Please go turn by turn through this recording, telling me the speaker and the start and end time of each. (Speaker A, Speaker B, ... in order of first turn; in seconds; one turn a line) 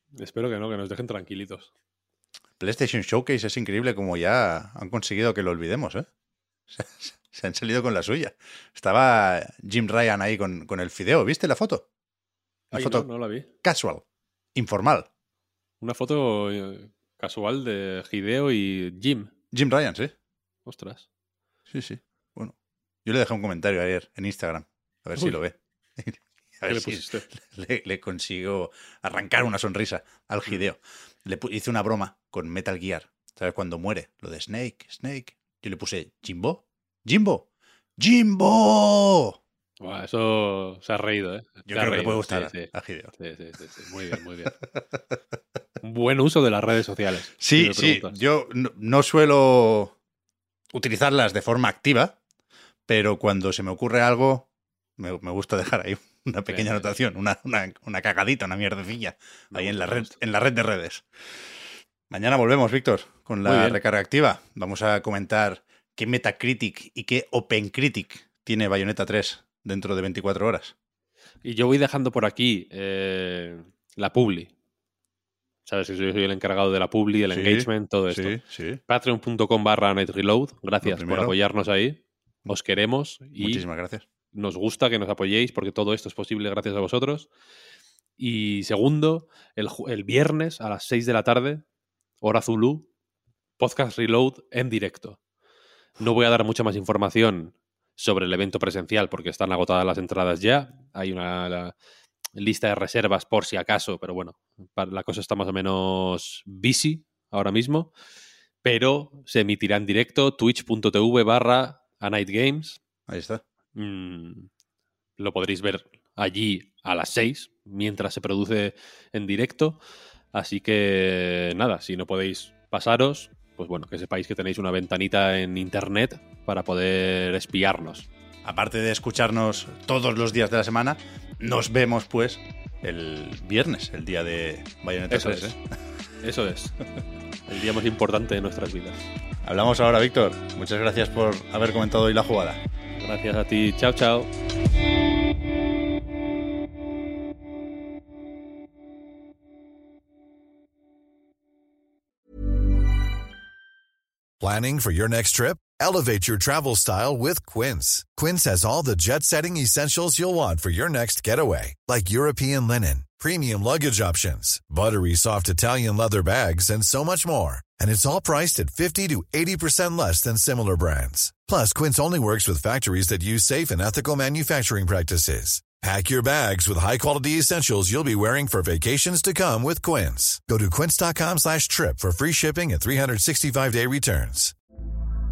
Speaker A: 0.2-1.7
Speaker B: 2.6-6.1
Speaker B: 6.7-11.9
Speaker A: 12.7-13.5
Speaker B: 12.7-13.1
Speaker B: 13.6-14.0
Speaker B: 14.5-15.1
Speaker A: 15.8-19.3
Speaker B: 19.5-20.1
Speaker A: 20.6-21.1
Speaker B: 21.7-39.4
Speaker A: 26.7-27.2
Speaker A: 39.8-44.6
Speaker B: 41.6-43.1
Speaker A: 45.8-48.1
Speaker B: 47.4-49.9
Speaker B: 50.7-52.2
Speaker B: 52.9-61.0
Speaker A: 56.5-56.9
Speaker A: 59.5-60.1
Speaker B: 62.1-70.7
Speaker A: 63.4-63.8
Speaker A: 71.4-74.5
Speaker A: 75.7-83.6
Speaker B: 77.3-78.8
Speaker B: 80.8-81.3
Speaker B: 83.4-84.0
Speaker A: 84.3-87.3
Speaker A: 88.2-91.6
Speaker A: 92.2-92.9
Speaker A: 93.6-95.2
Speaker A: 96.0-101.7
Speaker A: 102.4-107.9
Speaker A: 108.6-112.8
Speaker B: 113.1-113.4
Speaker A: 113.7-114.5
Speaker A: 115.2-119.8
Speaker A: 120.3-128.1
Speaker B: 128.4-135.6
Speaker A: 135.1-135.6
Speaker A: 136.2-136.8
Speaker A: 137.5-139.0
Speaker B: 139.4-142.6
Speaker A: 142.9-144.3
Speaker C: 154.4-184.5